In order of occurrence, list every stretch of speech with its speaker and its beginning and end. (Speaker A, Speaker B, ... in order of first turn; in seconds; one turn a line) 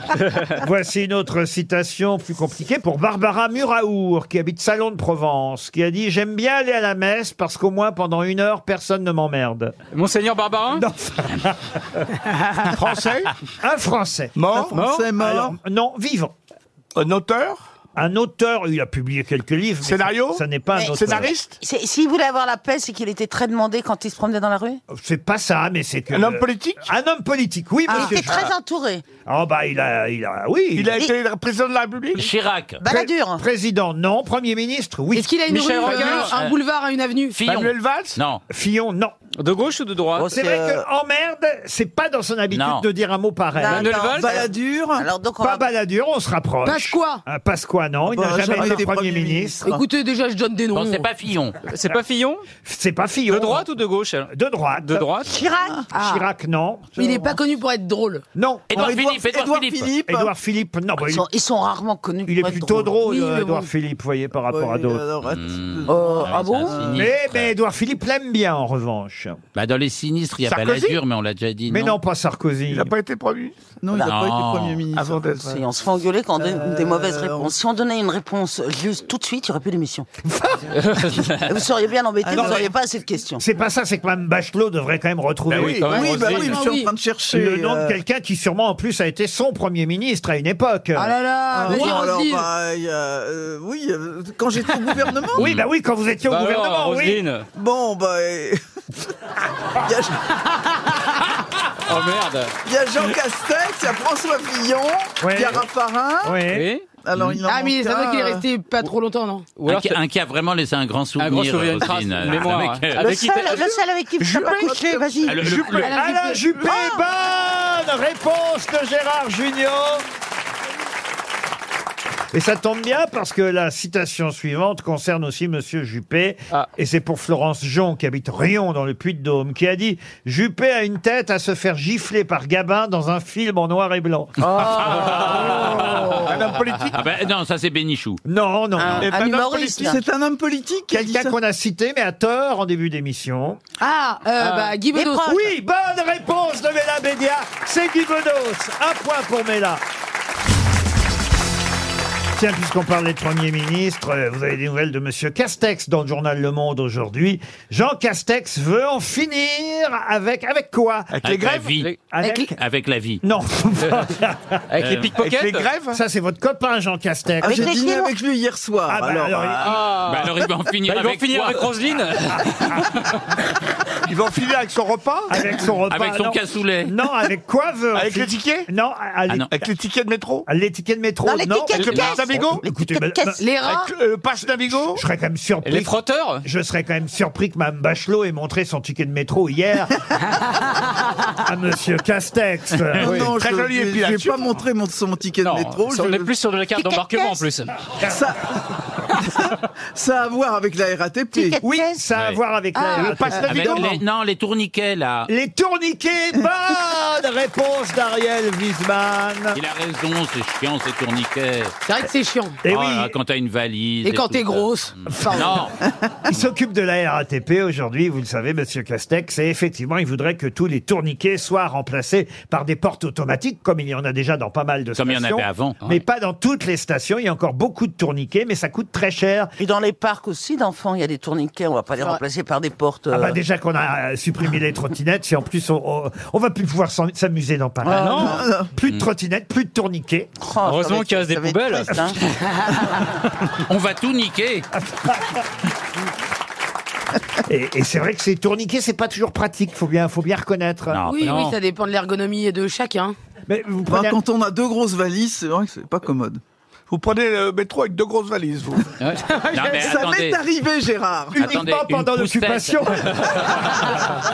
Speaker A: 0.5-9.7
Speaker B: 9.9-10.8
Speaker A: 10.7-12.0
Speaker C: 12.7-13.3
Speaker A: 13.6-14.4
Speaker C: 14.3-14.7
Speaker D: 14.5-15.5
Speaker B: 14.7-15.1
Speaker A: 15.2-16.3
Speaker C: 16.9-17.6
Speaker A: 17.9-21.3
Speaker C: 19.8-21.6
Speaker E: 20.8-24.8
Speaker A: 24.9-28.5
Speaker C: 26.1-26.9
Speaker E: 27.9-29.1
Speaker A: 29.2-31.0
Speaker C: 30.8-32.3
Speaker F: 32.1-32.8
Speaker E: 32.8-33.4
Speaker A: 32.8-35.3
Speaker G: 35.1-37.4
Speaker B: 35.5-36.3
Speaker A: 35.8-36.1
Speaker F: 36.2-36.5
Speaker F: 37.4-38.4
Speaker C: 37.5-38.2
Speaker A: 38.5-39.1
Speaker B: 39.4-40.3
Speaker E: 40.1-40.8
Speaker D: 40.2-40.6
Speaker A: 40.3-44.0
Speaker F: 42.5-42.8
Speaker E: 43.6-45.6
Speaker B: 43.6-44.4
Speaker D: 44.1-45.0
Speaker A: 45.4-49.6
Speaker G: 46.6-47.2
Speaker D: 48.1-49.8
Speaker G: 49.6-51.0
Speaker F: 50.7-51.6
Speaker B: 51.6-52.5
Speaker A: 52.6-53.6
Speaker B: 53.3-55.4
Speaker A: 54.3-55.1
Speaker E: 55.3-55.8
Speaker A: 55.9-57.4
Speaker G: 55.9-56.3
Speaker G: 57.0-58.2
Speaker A: 58.3-59.0
Speaker F: 58.7-59.9
Speaker D: 58.7-60.3
Speaker A: 60.1-61.2
Speaker E: 61.0-63.0
Speaker A: 62.2-65.0
Speaker G: 63.0-63.7
Speaker D: 64.5-66.8
Speaker F: 65.2-67.5
Speaker E: 65.9-66.9
Speaker A: 66.9-69.4
Speaker F: 69.5-72.0
Speaker A: 70.5-71.0
Speaker A: 71.7-72.9
Speaker C: 72.7-73.5
Speaker D: 73.8-75.6
Speaker F: 73.9-74.8
Speaker C: 74.9-75.6
Speaker E: 75.4-80.1
Speaker D: 76.3-77.5
Speaker A: 80.2-80.7
Speaker B: 80.7-81.6
Speaker E: 81.4-83.4
Speaker D: 82.2-82.7
Speaker A: 82.4-82.6
Speaker A: 83.4-86.0
Speaker C: 85.5-86.4
Speaker B: 85.6-86.5
Speaker D: 85.8-88.0
Speaker G: 86.0-86.9
Speaker A: 87.3-91.1
Speaker G: 91.0-92.5
Speaker D: 91.5-95.4
Speaker B: 95.4-95.6
Speaker A: 95.4-97.2
Speaker B: 96.3-97.5
Speaker D: 97.5-98.6
Speaker D: 99.8-100.3
Speaker B: 101.8-102.5
Speaker D: 102.6-106.4
Speaker A: 105.2-105.6
Speaker A: 106.2-106.7
Speaker B: 106.5-106.8
Speaker D: 107.0-108.4
Speaker G: 107.4-109.5
Speaker B: 109.5-110.0
Speaker F: 109.7-113.0
Speaker B: 111.2-113.6
Speaker D: 113.0-115.6
Speaker E: 113.1-115.6
Speaker F: 115.2-115.9
Speaker G: 115.8-116.5
Speaker A: 115.9-120.0
Speaker A: 122.3-135.9
Speaker F: 134.4-136.2
Speaker B: 134.8-136.9
Speaker C: 135.8-137.0
Speaker F: 136.9-138.2
Speaker A: 138.2-139.1
Speaker E: 138.8-140.0
Speaker C: 139.0-139.8
Speaker D: 139.6-141.3
Speaker A: 140.9-143.6
Speaker G: 143.8-145.3
Speaker B: 144.4-144.7
Speaker E: 144.9-145.4
Speaker A: 145.2-149.8
Speaker A: 152.3-162.6
Speaker C: 161.1-161.7
Speaker F: 161.2-163.2
Speaker A: 163.2-164.6
Speaker B: 164.7-165.7
Speaker F: 164.8-165.1
Speaker C: 165.2-166.0
Speaker A: 165.9-167.8
Speaker E: 167.4-168.1
Speaker D: 167.4-169.8
Speaker A: 168.9-169.8
Speaker B: 169.6-170.3
Speaker F: 170.0-171.7
Speaker B: 170.8-172.9
Speaker C: 174.1-175.5
Speaker A: 175.3-179.5
Speaker F: 175.9-176.9
Speaker C: 177.9-178.7
Speaker C: 179.5-180.5
Speaker A: 180.5-183.4
Speaker E: 181.2-183.4
Speaker C: 181.7-182.6
Speaker G: 183.4-183.9
Speaker C: 183.6-185.0
Speaker A: 184.7-190.0
Speaker B: 185.6-186.4
Speaker A: 191.4-193.2
Speaker D: 193.0-196.3
Speaker B: 193.0-193.3
Speaker C: 193.2-194.6
Speaker B: 195.4-197.9
Speaker E: 196.7-197.4
Speaker D: 198.0-198.6
Speaker D: 199.2-201.6
Speaker E: 201.3-202.0
Speaker A: 201.6-204.0
Speaker G: 202.7-203.5
Speaker F: 203.3-205.3
Speaker A: 205.3-209.6
Speaker F: 209.5-211.7
Speaker G: 211.8-212.6
Speaker A: 212.6-213.1
Speaker F: 212.7-215.8
Speaker G: 214.0-215.6
Speaker A: 215.1-215.6
Speaker A: 216.3-229.5
Speaker F: 225.0-226.0
Speaker E: 229.6-233.4
Speaker A: 233.1-240.3
Speaker E: 237.8-238.4
Speaker B: 237.9-238.4
Speaker D: 238.2-238.7
Speaker E: 240.4-242.2
Speaker B: 240.6-242.2
Speaker G: 242.5-242.8
Speaker F: 243.7-244.7
Speaker A: 244.8-245.4
Speaker A: 247.4-251.0
Speaker F: 250.9-251.5
Speaker G: 251.1-253.1
Speaker B: 251.2-251.6
Speaker A: 253.5-254.2
Speaker D: 253.9-256.4
Speaker C: 256.9-258.9
Speaker G: 259.2-259.9
Speaker F: 259.5-260.4
Speaker D: 259.7-261.4
Speaker A: 261.3-263.6
Speaker F: 261.4-263.7